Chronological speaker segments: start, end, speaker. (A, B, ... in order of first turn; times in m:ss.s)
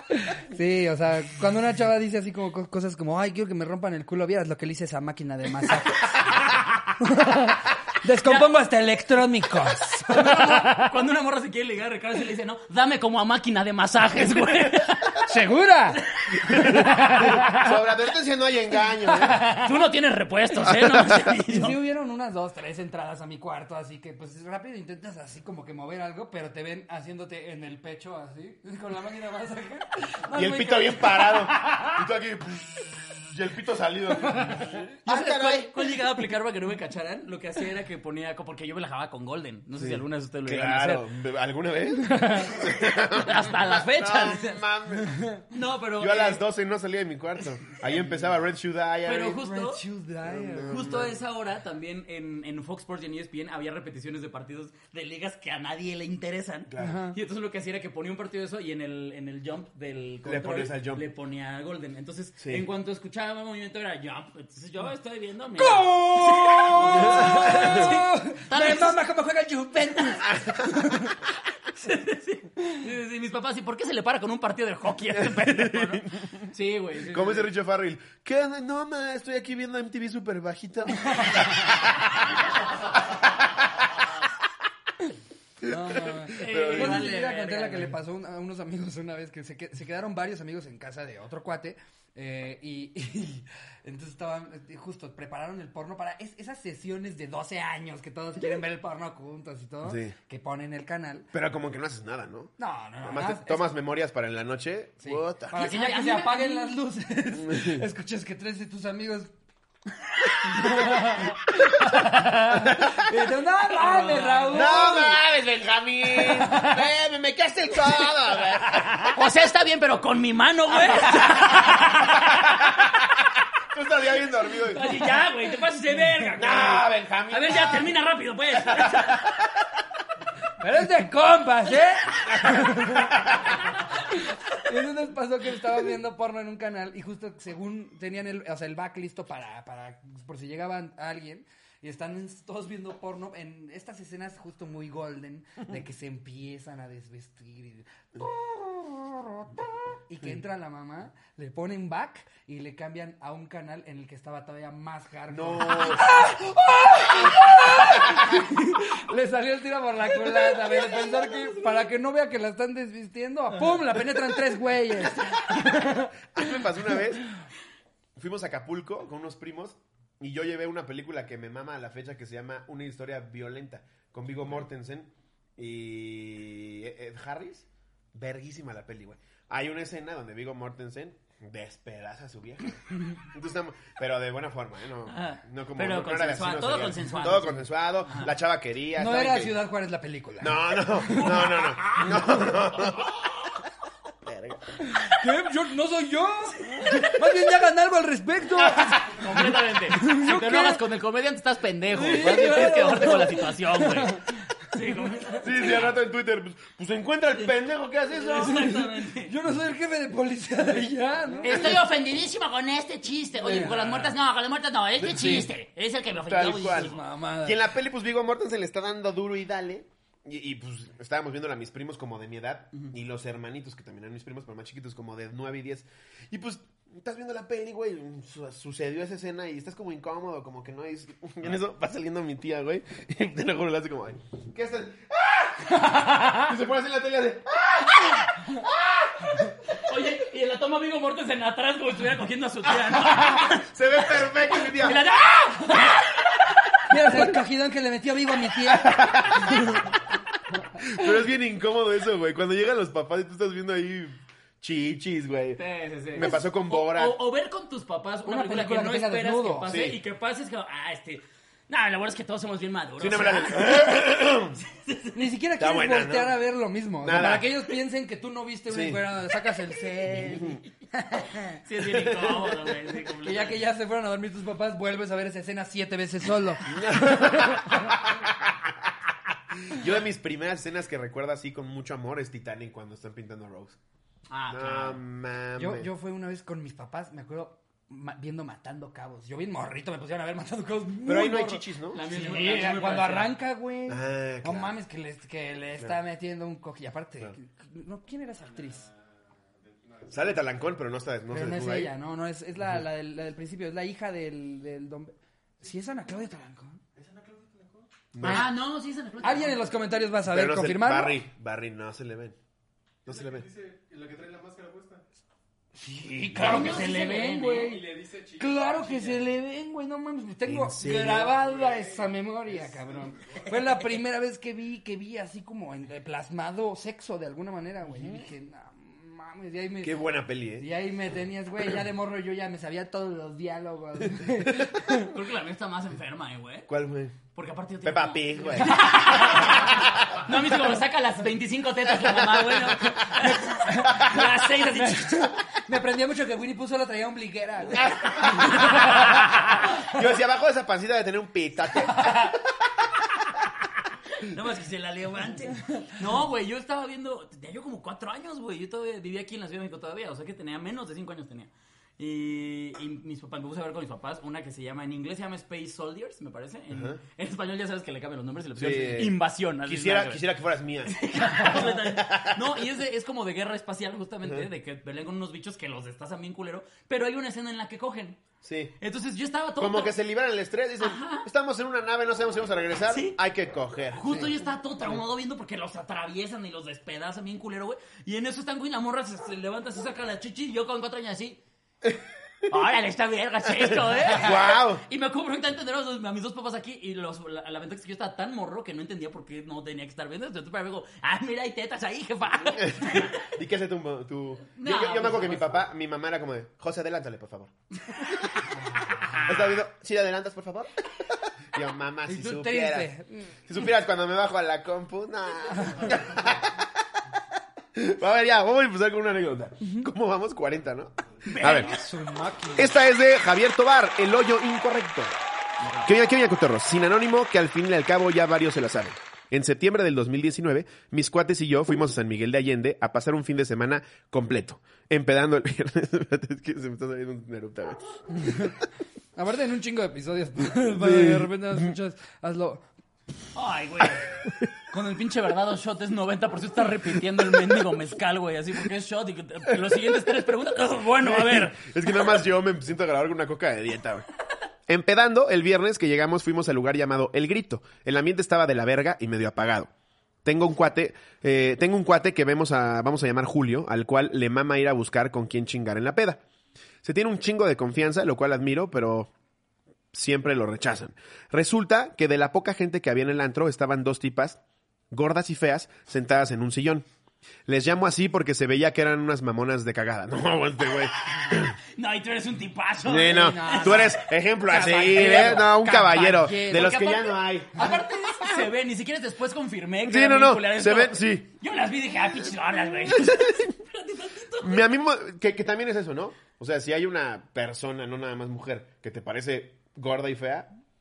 0:00.1-0:06.3 A
0:07.0-0:10.9 A
0:10.1-0:15.3 B
0:15.2-0:17.7 A
0:16.0-0:17.5 B
0:16.5-0:19.5 C
0:19.1-0:19.7 A
0:19.3-0:21.8 B
0:20.7-0:21.2 C
0:21.4-0:31.1 A
0:30.3-0:35.7 C
0:30.4-0:30.6 B
0:31.3-0:31.8 B
0:34.3-0:34.7 A
0:35.1-0:41.1 B
0:39.8-0:45.2 C
0:42.1-0:42.6 A
0:42.6-0:44.6 B
0:45.0-0:45.4 A
0:45.5-0:46.4 B
0:46.0-0:49.4 C
0:49.0-0:49.8 B
0:49.4-0:51.0 A
0:50.2-0:51.2 C
0:50.7-1:09.0 B
0:56.7-0:57.0 C
0:56.8-0:57.2 A
1:00.2-1:01.0 C
1:02.4-1:02.7 C
1:05.6-1:11.2 A
1:06.9-1:07.9 C
1:10.3-1:10.6 C
1:11.7-1:17.5 B
1:15.2-1:16.5 C
1:17.0-1:22.4 C
1:25.6-1:27.1 C
1:25.6-1:41.3 A
1:26.4-1:28.0 B
1:39.8-1:40.1 C
1:41.3-1:45.6 C
1:42.6-1:43.7 A
1:45.0-1:49.3 A
1:45.5-1:46.7 B
1:47.4-1:47.8 C
1:50.4-1:55.2 A
1:52.6-1:53.1 C
1:53.7-1:54.9 B
1:54.5-1:59.2 C
1:56.5-1:56.8 A
1:58.7-2:02.9 B
2:01.0-2:01.3 C
2:02.5-2:02.8 C
2:03.7-2:04.9 C
2:04.6-2:09.2 B
2:06.4-2:08.0 C
2:08.6-2:09.6 C
2:10.6-2:46.6 A
2:35.3-2:36.1 C
2:37.8-2:38.3 C
2:46.3-2:47.3 C
2:48.2-3:09.6 C
3:05.1-3:08.3 B
3:09.0-3:12.5 A
3:10.4-3:13.1 C
3:14.2-3:14.6 C
3:14.9-3:20.8 A
3:18.6-3:25.9 B
3:21.9-3:24.3 A
3:25.4-3:28.7 C
3:28.1-3:29.3 B
3:28.4-3:31.7 A
3:31.4-3:37.0 B
3:31.4-3:31.8 C
3:33.4-3:34.1 A
3:35.0-3:35.5 C
3:36.3-3:59.4 C
3:36.7-3:37.6 A
3:55.8-3:56.5 B
3:59.7-4:07.2 B
4:03.0-4:05.0 C
4:06.9-4:09.8 A
4:08.7-4:09.9 C
4:10.8-4:15.6 C
4:15.6-4:25.2 B
4:16.1-4:17.2 C
4:18.3-4:19.7 A
4:19.7-4:20.0 C
4:23.0-4:24.6 C
4:25.1-4:31.6 A
4:25.6-4:26.4 C
4:27.0-4:27.5 C
4:28.7-4:29.0 C
4:30.2-4:30.6 C
4:31.6-4:33.6 B
4:31.8-4:32.8 C
4:33.2-4:37.9 A
4:36.7-4:38.9 C
4:39.7-4:43.8 C
4:44.3-4:45.0 B
4:44.5-4:45.9 C
4:45.6-4:58.9 A
4:51.0-4:52.0 C
4:51.9-4:53.4 B
4:53.9-4:54.7 C
4:58.5-4:59.0 D
4:59.6-5:00.6 D
5:00.1-5:01.9 C
5:01.3-5:06.8 A
5:07.0-5:07.9 D
5:08.1-5:08.5 C
5:08.2-5:09.7 B
5:09.2-5:11.2 A
5:10.3-5:12.4 C
5:13.0-5:13.5 C
5:13.1-5:15.0 D
5:15.8-5:30.0 A
5:16.2-5:16.8 C
5:16.4-5:17.7 B
5:16.5-5:19.3 D
5:20.4-5:21.4 C
5:21.1-5:23.5 D
5:27.9-5:28.2 C
5:29.8-5:30.7 C
5:30.6-5:35.1 A
5:34.2-5:34.8 C
5:35.0-5:36.7 B
5:36.7-5:37.2 C
5:37.3-5:45.3 B
5:37.8-5:40.2 C
5:42.0-5:42.8 C
5:42.9-5:49.0 A
5:47.9-5:48.8 C
5:48.2-5:49.4 B
5:49.8-5:52.4 C
5:51.9-5:52.4 B
5:54.1-6:10.2 B
6:06.7-6:07.0 C
6:08.6-6:12.6 C
6:10.9-6:18.2 B
6:18.4-6:18.7 C
6:18.8-6:20.0 B
6:19.6-6:24.3 C
6:20.8-6:21.3 B
6:22.9-6:23.2 B
6:23.9-6:31.4 B
6:32.5-6:43.3 B
6:33.6-6:34.8 C
6:42.5-6:47.5 C
6:44.6-6:45.6 B
6:48.5-6:49.4 B
6:49.2-6:50.8 C
6:51.5-6:52.9 C
6:52.1-6:53.3 A
6:53.5-6:56.7 C
6:57.8-7:01.8 C
7:01.3-7:01.9 B
7:01.5-7:02.7 A
7:02.6-7:05.1 C
7:05.6-7:05.9 B
7:05.8-7:18.5 C
7:18.1-7:18.6 A
7:19.2-7:22.6 A
7:20.6-7:21.7 C
7:23.4-7:24.1 B
7:24.7-7:32.0 B
7:31.0-7:34.1 C
7:34.7-7:39.7 C
7:40.2-7:46.2 C
7:46.8-7:49.1 C
7:49.9-7:54.4 C
7:54.9-7:56.9 C
7:57.5-8:01.6 C
8:01.3-8:05.5 B
8:02.8-8:08.5 C
8:03.1-8:06.8 A
8:06.5-8:14.6 B
8:09.8-8:11.3 C
8:12.9-8:13.4 C
8:14.4-8:20.5 C